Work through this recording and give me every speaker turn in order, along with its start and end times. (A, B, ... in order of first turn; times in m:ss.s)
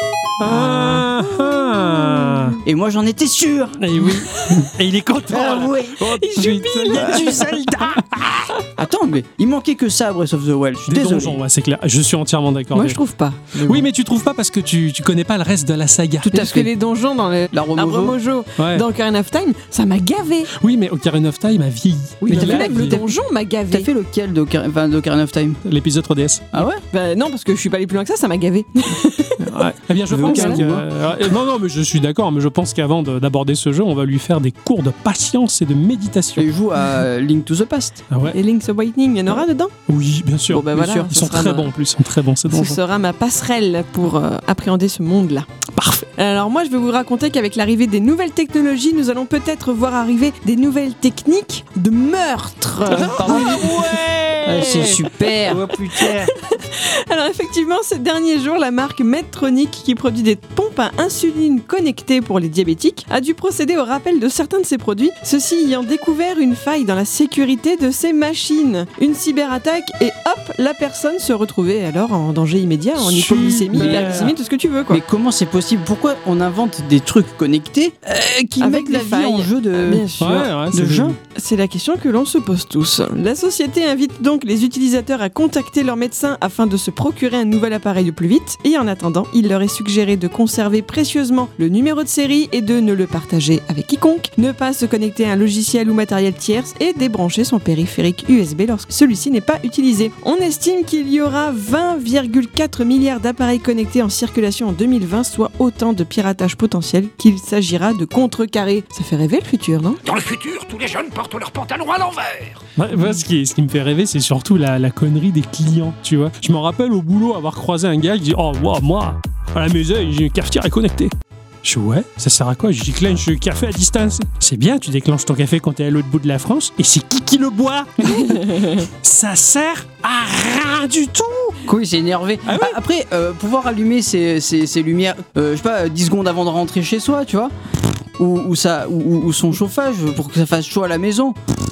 0:00.4-0:02.6 A
0:02.6-0:03.8 B
0:03.8-0:08.5 A
0:04.1-0:04.6 C
0:05.3-0:07.5 B
0:06.1-0:07.6 C
0:08.7-0:11.4 B
0:10.9-0:13.0 A
0:12.7-0:13.8 C
0:13.6-0:16.4 A
0:16.2-0:20.5 C
0:16.3-0:16.7 B
0:17.5-0:18.2 B
0:18.6-0:18.8 A
0:20.6-0:23.0 A
0:22.2-0:23.1 B
0:22.3-0:23.9 C
0:23.7-0:25.6 B
0:25.6-0:26.6 A
0:26.5-0:26.8 B
0:26.9-0:29.4 C
0:29.4-0:36.5 A
0:30.1-0:30.9 B
0:30.2-0:30.6 C
0:36.4-0:38.0 B
0:38.1-0:38.4 A
0:38.2-0:39.7 C
0:39.9-0:42.8 A
0:40.5-0:41.7 C
0:40.7-0:41.1 B
0:42.5-0:45.5 C
0:45.8-0:46.1 A
0:46.2-0:53.9 C
0:52.9-0:56.3 A
0:52.9-0:53.8 B
0:54.4-0:56.0 B
0:54.5-1:15.0 C
1:13.0-1:14.3 A
1:13.7-1:14.3 B
1:14.9-1:21.2 B
1:18.6-1:20.5 C
1:20.2-1:21.2 A
1:21.3-1:50.0 C
1:50.0-1:52.6 D
1:52.8-2:01.1 A
2:01.6-2:11.6 A
2:11.6-2:17.5 B
2:12.5-2:12.7 A
2:18.2-2:21.4 B